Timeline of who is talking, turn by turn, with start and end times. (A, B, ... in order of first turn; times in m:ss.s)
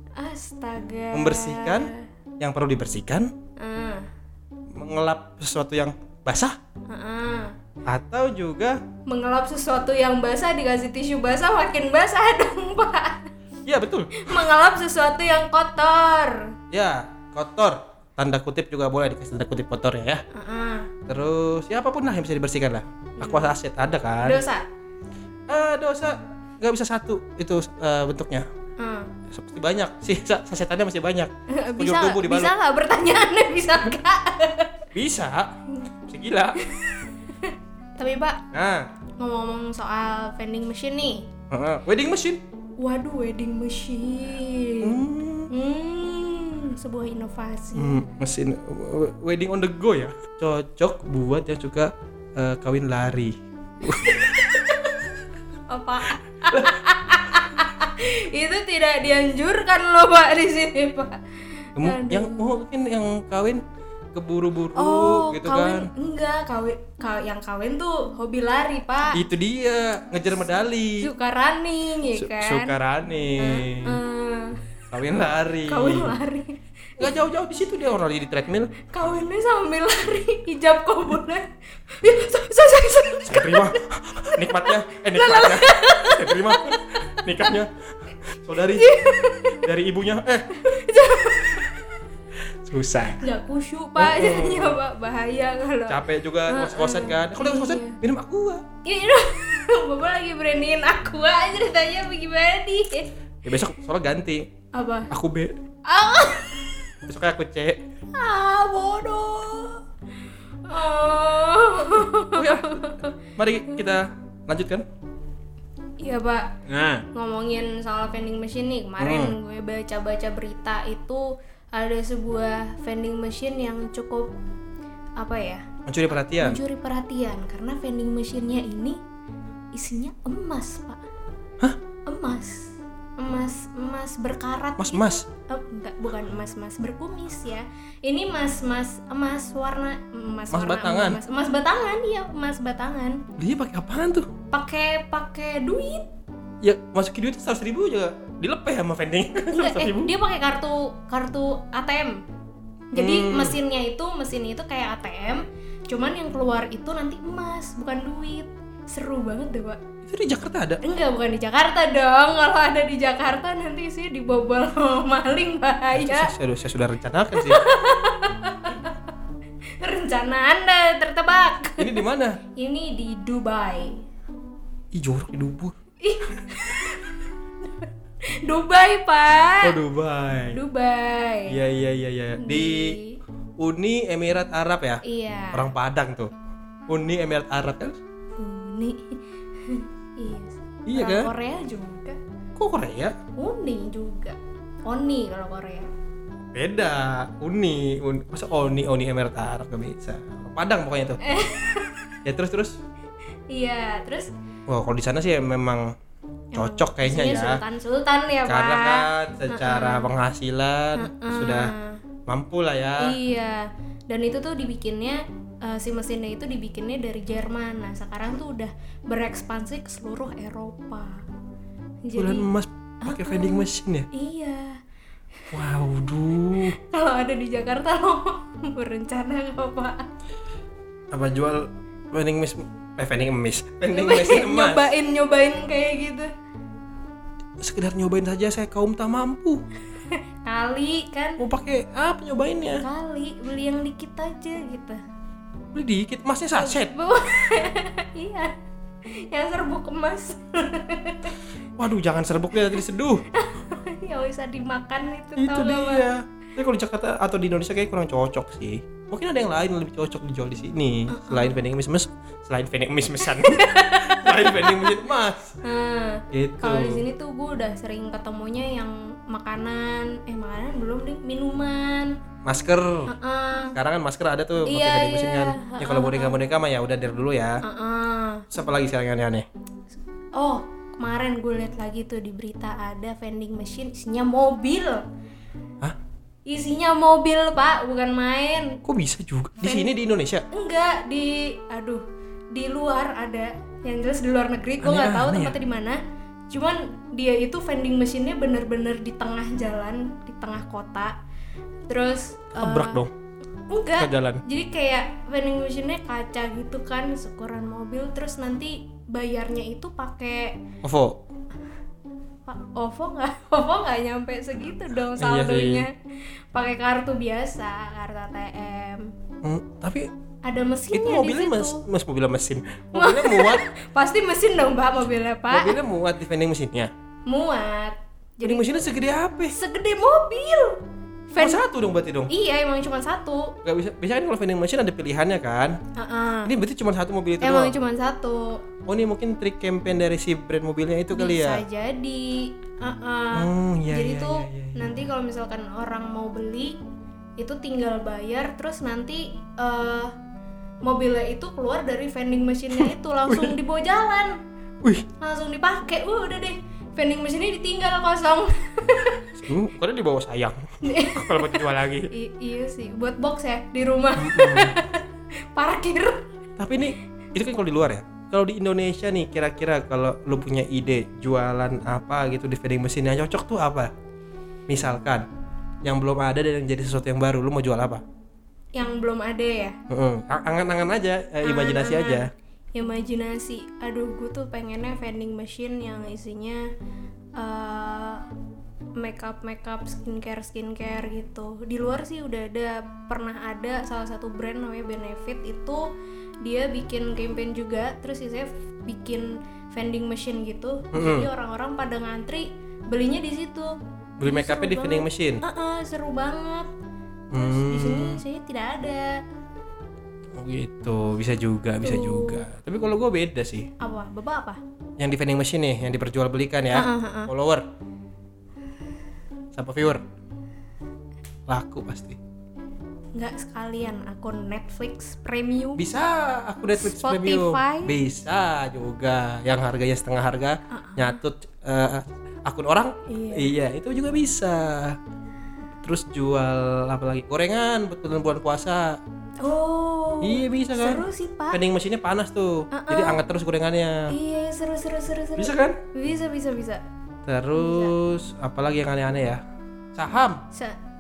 0:00.2-0:02.1 A
0:01.1-0:03.3 B
0:03.6-0:04.1 A
0:04.8-0:06.6 B
0:06.9-0:07.5 A
0:07.9-0:08.8 B
0:09.1-0:13.3 A
0:13.7-0:14.3 B
0:14.2-0:16.5 A
0:16.7-0:20.2 B
0:20.3-0:20.9 A
0:21.1-0:24.4 B
0:23.2-0:23.6 A
0:24.2-0:24.7 A
0:25.5-0:28.5 B
0:28.8-0:29.1 A
0:29.3-0:32.5 B
0:31.5-0:34.8 A
0:34.9-0:35.5 B
0:36.1-0:36.6 B
0:36.6-0:38.4 A
0:38.5-0:38.9 B
0:39.2-0:41.3 A
0:41.5-0:42.4 B
0:42.8-0:48.0 A
0:44.8-0:45.5 B
0:47.8-0:54.2 B
0:53.9-0:55.2 A
0:55.7-1:02.5 A
1:01.8-1:03.6 B
1:04.1-1:05.9 B
1:04.8-1:09.2 A
1:09.1-1:11.1 B
1:11.0-1:12.8 A
1:12.2-1:14.0 B
1:13.4-1:14.6 A
1:14.9-1:16.2 B
1:15.7-1:17.1 A
1:17.0-1:18.7 B
1:18.9-1:23.8 A
1:23.2-1:27.7 B
1:24.4-1:27.6 A
1:28.3-1:29.0 B
1:28.7-1:29.6 A
1:29.5-1:30.7 B
1:30.5-1:31.9 A
1:32.6-1:33.3 B
1:33.2-1:38.0 A
1:34.0-1:34.8 B
1:35.9-1:38.6 B
1:38.8-1:43.1 A
1:43.4-1:44.5 B
1:44.7-1:45.1 A
1:45.1-1:45.6 B
1:45.9-1:46.8 A
1:47.1-1:47.8 B
1:48.1-1:49.8 A
1:50.6-1:53.1 A
1:52.3-1:54.8 B
1:56.0-1:56.5 A
1:56.7-1:57.0 B
1:57.1-2:04.3 A
1:59.0-1:59.4 B
2:05.2-2:05.6 A
2:05.9-2:06.6 B
2:06.4-2:09.0 A
2:09.7-2:11.0 A
2:12.1-2:23.2 A
2:14.8-2:15.3 B
2:20.5-2:21.2 B
2:23.4-2:24.3 B
2:24.5-2:26.1 A
2:26.6-2:30.1 B
2:29.5-2:32.2 A
2:32.9-2:39.8 A
2:33.0-2:33.6 B
2:40.1-2:40.8 B
2:40.8-2:46.3 A
2:45.9-2:47.7 B
2:47.4-2:49.1 A
2:49.8-2:52.0 A
2:51.8-2:52.4 B
2:52.6-2:54.0 A
2:54.9-2:55.8 B
2:56.0-2:59.8 A
2:59.6-3:00.6 B
3:00.5-3:01.6 A
3:01.5-3:03.0 B
3:02.4-3:03.2 A
3:03.6-3:05.0 B
3:05.1-3:05.7 A
3:05.5-3:06.3 B
3:06.9-3:08.0 B
3:08.4-3:12.2 A
3:10.9-3:11.3 B
3:12.6-3:13.2 B
3:13.4-3:15.9 A
3:16.5-3:21.2 B
3:21.2-3:22.1 A
3:22.2-3:22.8 B
3:23.5-3:24.3 A
3:24.7-3:25.9 B
3:26.5-3:30.1 A
3:26.6-3:27.6 B
3:28.5-3:31.7 B
3:31.0-3:32.0 A
3:32.3-3:33.2 B
3:33.0-3:41.2 A
3:42.0-3:42.5 A
3:42.2-3:44.1 B
3:43.0-3:44.8 A
3:45.5-3:46.8 B
3:46.8-3:50.1 A
3:51.1-3:54.9 B
3:53.9-3:56.3 A
3:57.6-3:59.6 B
4:00.0-4:01.4 A
4:01.4-4:02.8 B
4:02.8-4:05.0 A
4:05.7-4:06.9 B
4:06.6-4:08.5 A
4:09.1-4:11.4 A
4:11.8-4:13.2 B
4:13.3-4:16.1 A
4:15.4-4:25.6 B
4:21.1-4:21.6 A
4:23.2-4:25.0 A
4:25.6-4:32.1 A
4:26.3-4:27.0 B
4:32.4-4:33.1 B
4:33.1-4:33.8 A
4:33.8-4:37.6 B
4:34.7-4:36.4 A
4:37.6-4:38.5 A
4:38.5-4:39.5 B
4:40.4-4:45.0 A
4:46.5-4:48.8 A
4:48.8-4:50.5 B
4:49.6-4:49.9 A
4:50.5-4:56.0 A
4:54.8-4:55.6 B
4:56.5-5:01.2 A
5:01.9-5:03.0 A
5:02.6-5:03.1 B
5:03.7-5:10.6 A
5:04.0-5:04.4 B
5:10.8-5:11.2 B
5:12.5-5:15.9 A
5:15.2-5:15.9 B
5:16.5-5:19.1 A
5:19.4-5:20.1 B
5:20.4-5:21.8 A
5:20.9-5:23.6 B
5:23.0-5:25.8 A
5:25.5-5:26.9 B
5:27.3-5:28.8 A
5:28.4-5:29.6 B
5:29.5-5:31.6 A
5:31.4-5:32.3 B
5:32.3-5:33.6 A
5:33.6-5:35.8 B
5:36.0-5:36.5 A
5:36.4-5:37.8 B
5:37.4-5:38.6 A
5:38.9-5:41.6 B
5:41.1-5:46.8 A
5:43.3-5:45.0 B
5:47.4-5:50.2 A
5:50.8-5:54.4 A
5:52.8-5:53.6 B
5:55.2-5:59.3 A
5:59.4-6:02.1 B
6:00.8-6:06.3 A
6:04.2-6:04.8 B
6:06.6-6:13.9 B
6:14.7-6:15.2 B
6:15.8-6:18.0 B
6:18.8-6:19.8 A
6:19.9-6:22.3 B
6:21.4-6:26.6 A
6:27.4-6:28.2 A
6:29.0-6:35.9 A
6:36.4-6:43.7 A
6:40.9-6:41.3 B
6:44.2-6:45.4 B
6:44.2-6:46.7 A
6:47.3-6:48.2 B
6:47.3-6:49.2 A
6:50.4-6:53.7 B
6:51.8-6:52.5 A
6:53.8-6:54.6 A
6:55.0-6:57.7 B
6:56.7-6:57.3 A
6:59.5-7:00.0 B
7:01.5-7:02.2 B
7:03.2-7:05.8 A
7:05.8-7:15.0 B
7:06.8-7:08.0 A
7:10.7-7:11.2 A
7:13.1-7:13.5 A
7:15.8-7:19.0 B
7:19.4-7:21.6 A
7:20.2-7:24.1 B
7:22.7-7:23.2 A
7:24.1-7:26.8 A
7:25.4-7:25.8 B
7:27.3-7:29.4 B
7:27.6-7:27.9 A
7:30.0-7:30.4 B